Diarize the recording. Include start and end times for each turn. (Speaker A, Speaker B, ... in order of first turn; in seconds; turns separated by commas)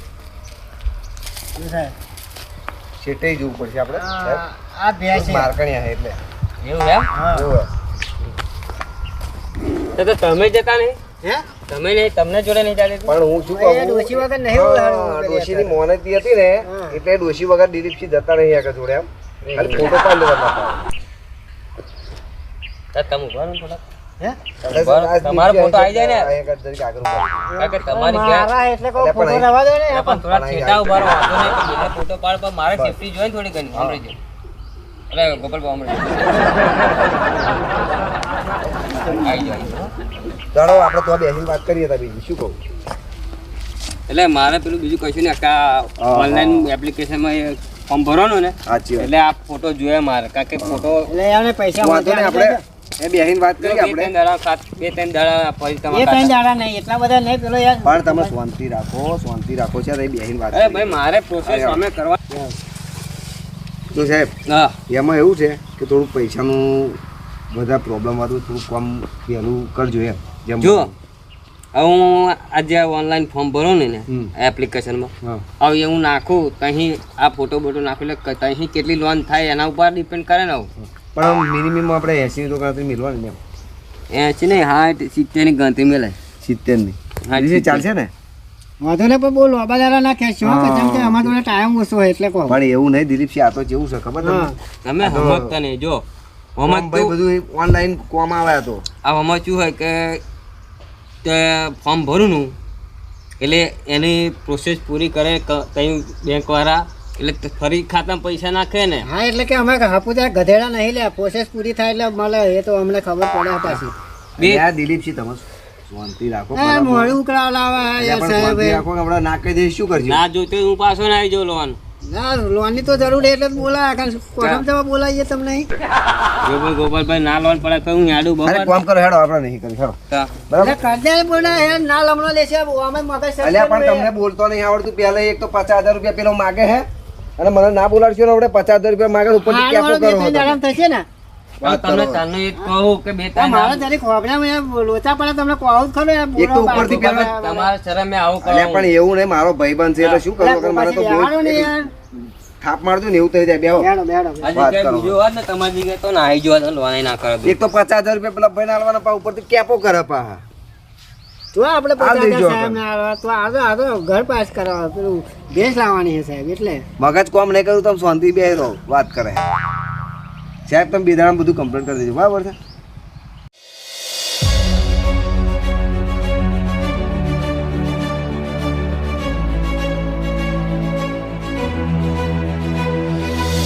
Speaker A: 1.6-1.9, Speaker B: 3.0-4.4, Speaker A: 4.0-5.5, Speaker B: 5.1-6.2, Speaker C: 6.6-7.1, Speaker A: 7.1-7.5, Speaker B: 7.3-7.7, Speaker C: 10.0-11.0, Speaker C: 11.7-13.1, Speaker B: 13.1-20.9, Speaker A: 13.5-15.8, Speaker A: 16.6-17.0, Speaker C: 19.5-20.0, Speaker C: 22.9-23.8, Speaker B: 24.6-27.5, Speaker C: 24.7-26.3, Speaker A: 27.5-30.2, Speaker C: 27.6-28.5, Speaker B: 29.0-29.5, Speaker C: 29.9-34.2, Speaker B: 30.3-31.1, Speaker B: 33.7-34.0, Speaker C: 35.1-37.0, Speaker C: 39.1-39.9, Speaker B: 40.5-42.6, Speaker C: 44.1-51.1, Speaker B: 46.0-46.7, Speaker B: 48.7-49.1, Speaker B: 50.6-50.9, Speaker A: 51.1-52.6, Speaker B: 51.8-54.1, Speaker C: 53.6-56.3, Speaker A: 55.9-58.3, Speaker B: 57.9-61.8, Speaker C: 60.5-62.2, Speaker A: 62.3-62.6, Speaker B: 63.9-64.3, Speaker C: 64.5-64.8, Speaker B: 64.9-67.0, Speaker B: 67.5-70.9, Speaker C: 70.6-70.9, Speaker C: 71.8-80.7, Speaker B: 81.2-83.4, Speaker C: 84.1-86.2, Speaker B: 86.4-88.1, Speaker C: 87.3-87.8, Speaker A: 88.8-92.6, Speaker B: 90.4-91.3, Speaker B: 92.5-95.5, Speaker A: 94.2-94.6, Speaker C: 94.8-96.0, Speaker C: 96.6-97.1, Speaker B: 96.6-98.8, Speaker C: 99.0-100.2, Speaker C: 101.2-102.5, Speaker C: 103.4-109.1, Speaker A: 109.0-113.9, Speaker C: 114.4-114.7, Speaker B: 114.4-117.2, Speaker A: 116.5-118.8, Speaker B: 118.0-120.2, Speaker C: 120.0-121.8, Speaker A: 122.1-125.7, Speaker C: 126.5-128.8, Speaker B: 128.4-130.0, Speaker C: 130.1-130.4, Speaker B: 130.5-130.8, Speaker A: 130.6-134.1, Speaker B: 133.4-136.9, Speaker B: 137.4-140.6, Speaker A: 139.5-141.1, Speaker B: 141.6-142.2, Speaker C: 141.6-143.9, Speaker A: 143.3-147.7, Speaker B: 146.4-147.3, Speaker C: 146.7-148.9, Speaker B: 148.4-151.7, Speaker A: 150.4-151.9, Speaker B: 152.6-153.9, Speaker A: 153.8-154.5, Speaker C: 154.4-157.6, Speaker B: 154.5-155.2, Speaker B: 157.4-160.4, Speaker A: 161.5-166.8, Speaker B: 162.0-162.8, Speaker B: 167.0-169.5, Speaker B: 170.7-172.6